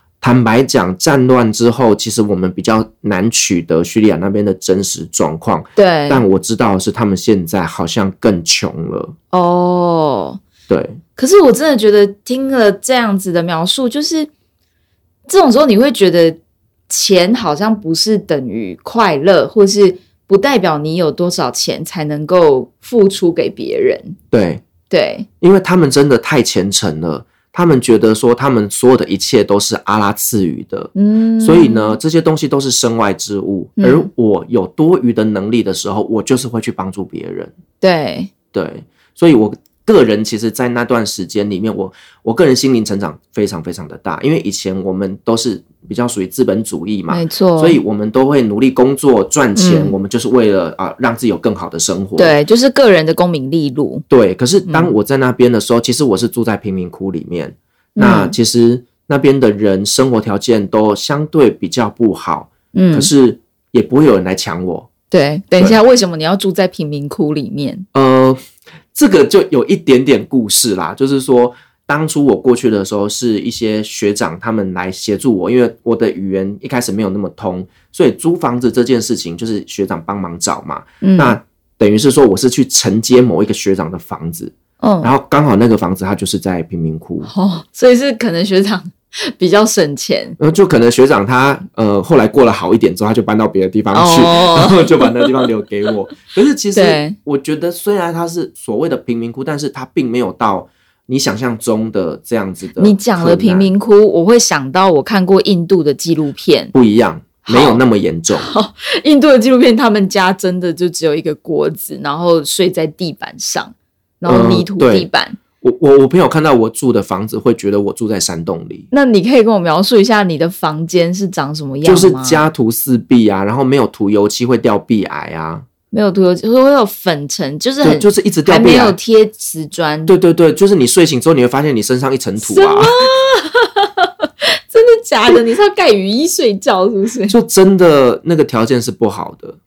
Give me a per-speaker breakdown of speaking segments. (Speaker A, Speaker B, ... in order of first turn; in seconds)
Speaker A: 0.2-9.1, 10.7-11.0, 24.3-24.6, 25.4-37.5, 38.5-52.4, 54.1-64.9, 67.9-68.4, 68.9-87.3, 90.4-103.7, 106.7-108.5, 114.2-115.1, 115.6-118.9, 121.8-125.6, 127.8-128.9, 130.1-132.9, 137.3-139.6
Speaker B: 5.8-6.2, 9.3-10.4, 11.2-14.3, 15.3-16.4, 16.9-24.2, 24.9-25.3, 30.9-32.0, 33.8-34.1, 37.8-38.3, 47.1-47.8, 49.5-49.9, 52.2-54.0, 58.0-58.3, 62.7-63.1, 65.1-67.9, 81.0-81.4, 84.8-85.1, 87.2-90.4, 93.9-95.3, 96.7-97.2, 102.8-106.7, 107.4-107.8, 108.3-115.4, 118.9-122.5, 125.9-130.1, 132.4-137.3